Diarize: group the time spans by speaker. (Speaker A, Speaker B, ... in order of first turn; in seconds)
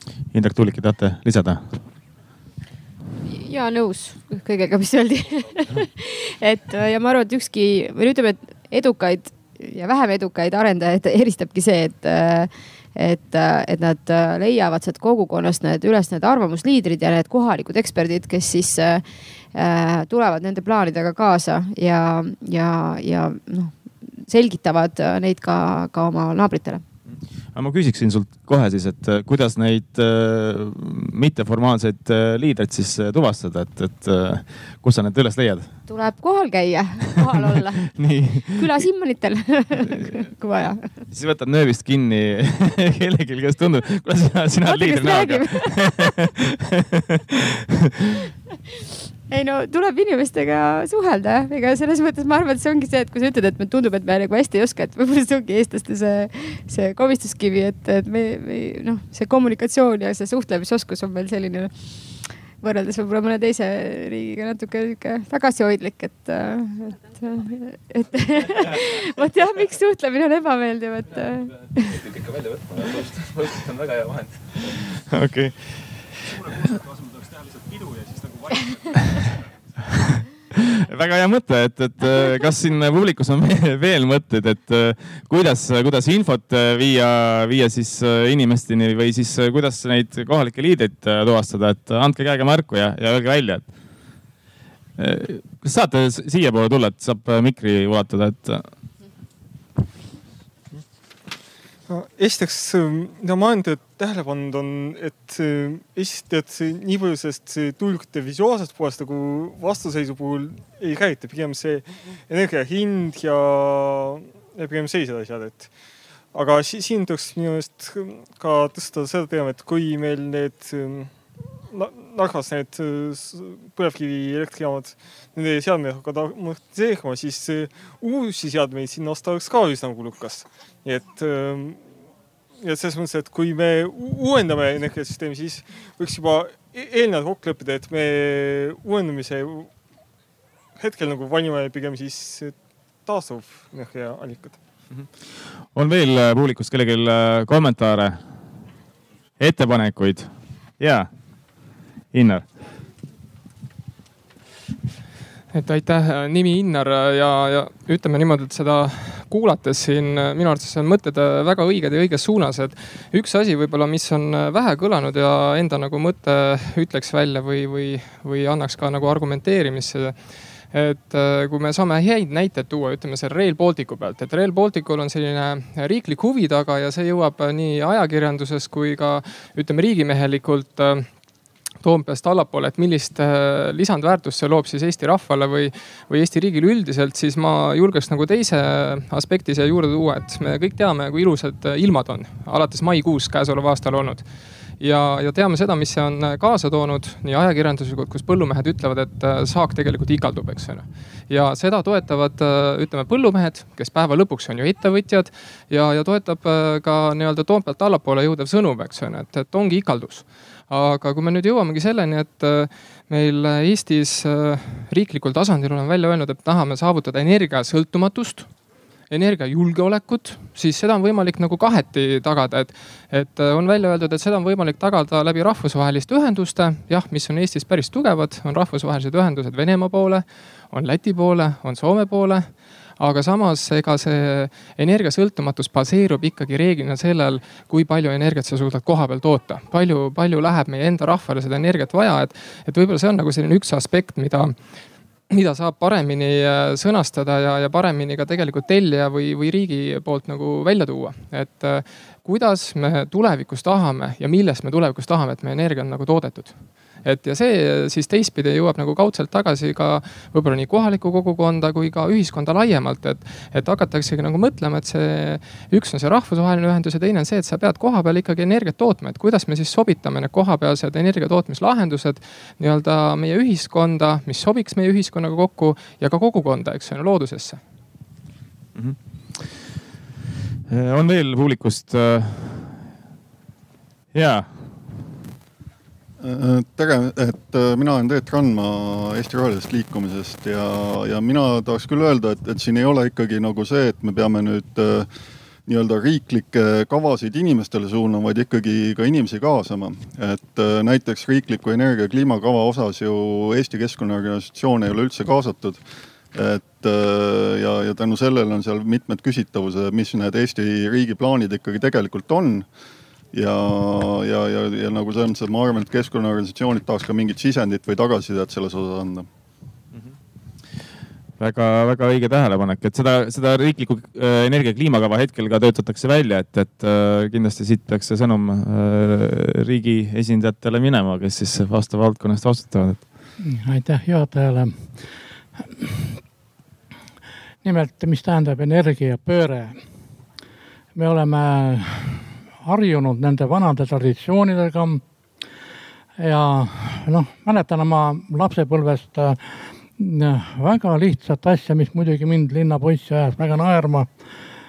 Speaker A: 0.3-1.8, 27.5-35.7, 37.9-38.7, 41.1-46.4, 75.1-76.7, 80.9-93.7, 95.0-98.7, 145.7-148.2, 149.4-151.1, 152.1-152.4, 278.7-279.5, 280.7-282.9, 284.1-284.7, 321.4-333.1
Speaker B: 3.2-26.8, 35.9-41.0, 44.6-46.1, 49.3-71.9
Speaker C: 71.8-74.5
Speaker D: 101.9-115.7, 116.3-121.1, 121.7-131.8, 132.6-139.7, 140.8-144.6
Speaker E: 155.5-181.2, 181.8-277.6
Speaker F: 286.2-295.1, 295.7-312.7, 313.3-319.3
Speaker G: 333.4-334.9, 337.6-339.8, 340.9-345.0, 346.2-349.4, 350.0-354.1